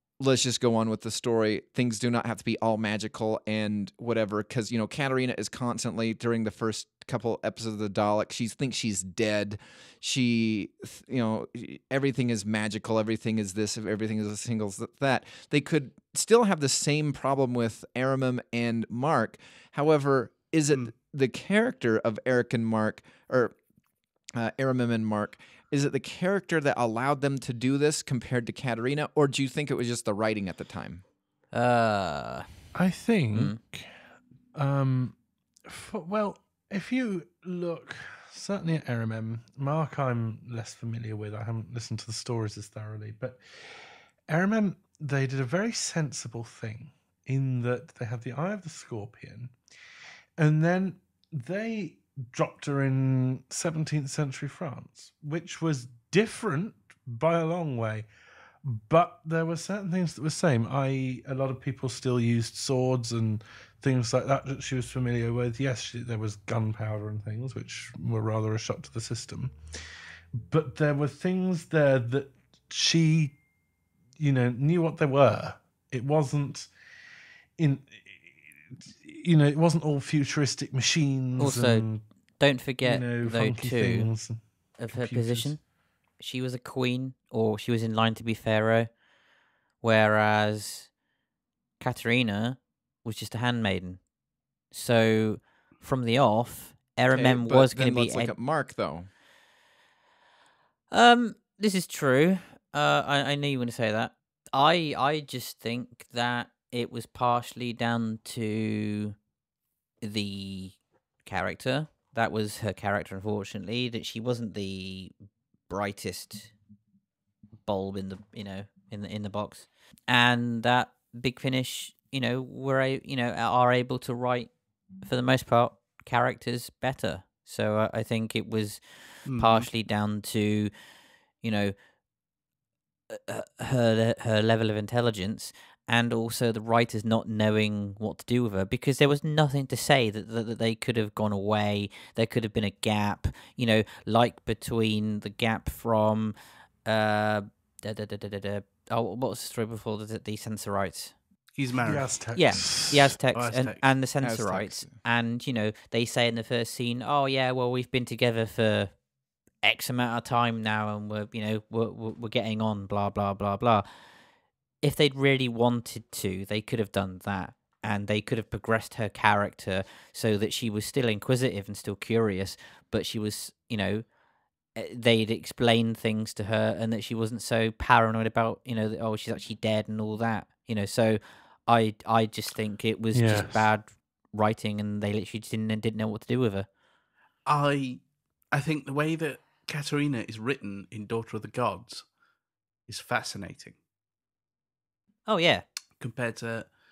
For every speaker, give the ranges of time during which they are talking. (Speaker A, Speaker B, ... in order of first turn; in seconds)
Speaker A: 0.2-23.5, 24.4-31.0, 97.1-99.1, 154.2-154.9
Speaker B: 31.5-32.5, 33.3-33.6, 81.4-81.9, 82.4-84.2, 84.8-85.6, 86.2-88.9, 89.8-90.9, 91.8-94.0, 94.7-98.3, 100.9-109.2, 110.0-115.1, 115.7-116.5, 117.6-124.5, 125.0-130.7, 131.4-131.8, 133.1-151.1, 152.3-158.9, 159.6-163.9, 164.8-174.1, 174.7-186.7, 195.2-195.6
Speaker C: 32.7-33.9, 34.5-35.1, 35.7-49.5, 50.4-58.1, 58.6-69.5, 70.3-73.4, 74.2-76.7, 77.6-82.1, 82.8-85.5, 151.8-153.1, 183.1-183.7
Speaker D: 129.2-129.7, 151.5-153.8, 187.4-192.1, 192.9-193.8, 196.0-196.7